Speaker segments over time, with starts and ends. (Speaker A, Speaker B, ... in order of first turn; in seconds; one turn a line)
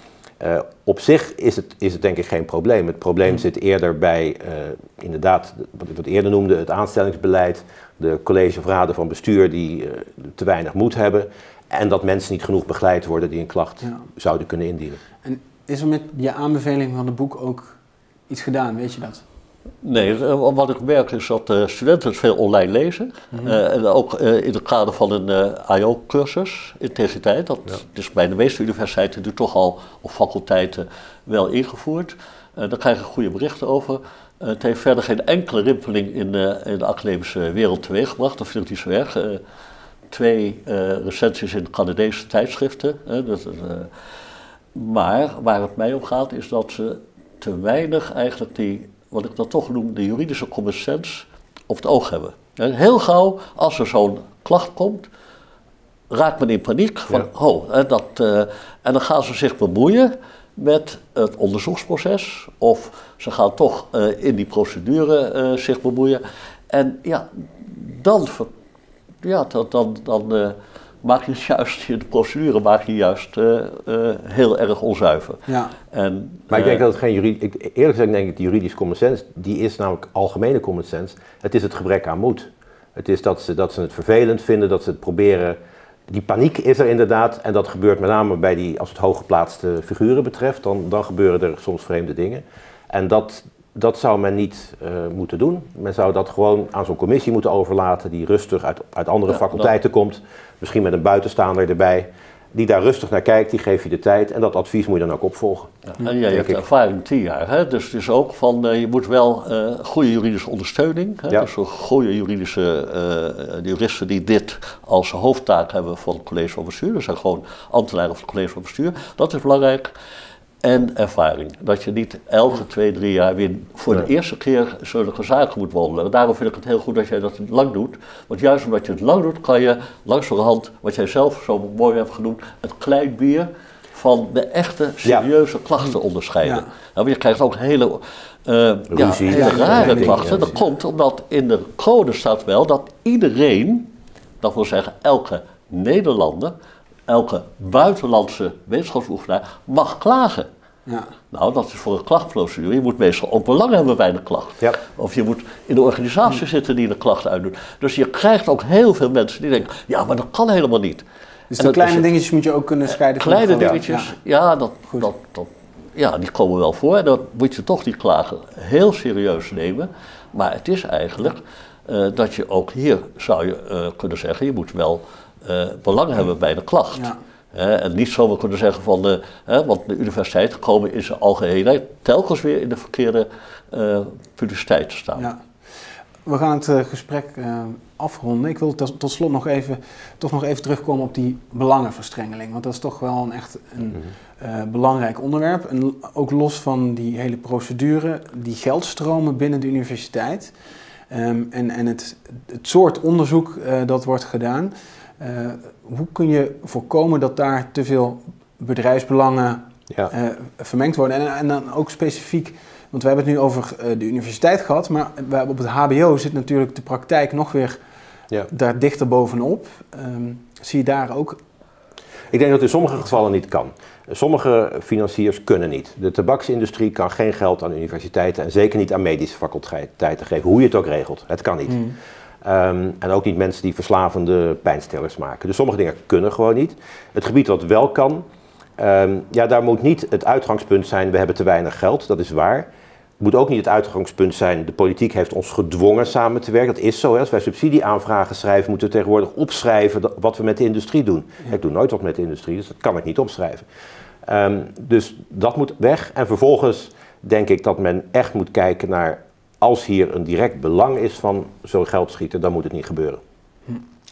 Speaker A: 0.4-15.0
Speaker B: 15.2-17.8
Speaker B: 18.3-19.2
Speaker C: 19.8-39.4
Speaker B: 23.3-23.6
Speaker C: 40.1-43.9
Speaker C: 44.7-55.1
Speaker C: 56.1-68.5
Speaker C: 69.2-76.8
Speaker B: 75.5-75.7
Speaker A: 76.5-85.6
Speaker A: 86.1-105.8
Speaker C: 106.0-119.9
Speaker A: 106.3-106.6
Speaker C: 120.6-146.5
Speaker A: 138.9-140.5
Speaker B: 139.3-140.5
Speaker C: 147.1-150.5
Speaker C: 151.3-161.0
Speaker B: 161.5-164.1
Speaker C: 161.6-162.0
Speaker C: 163.0-185.3
Speaker B: 186.2-200.5
Speaker B: 201.1-217.8
Speaker B: 218.5-221.4
Speaker A: 222.3-238.2
Speaker A: 238.8-242.7
Speaker A: 243.2-253.7
Speaker A: 254.2-263.2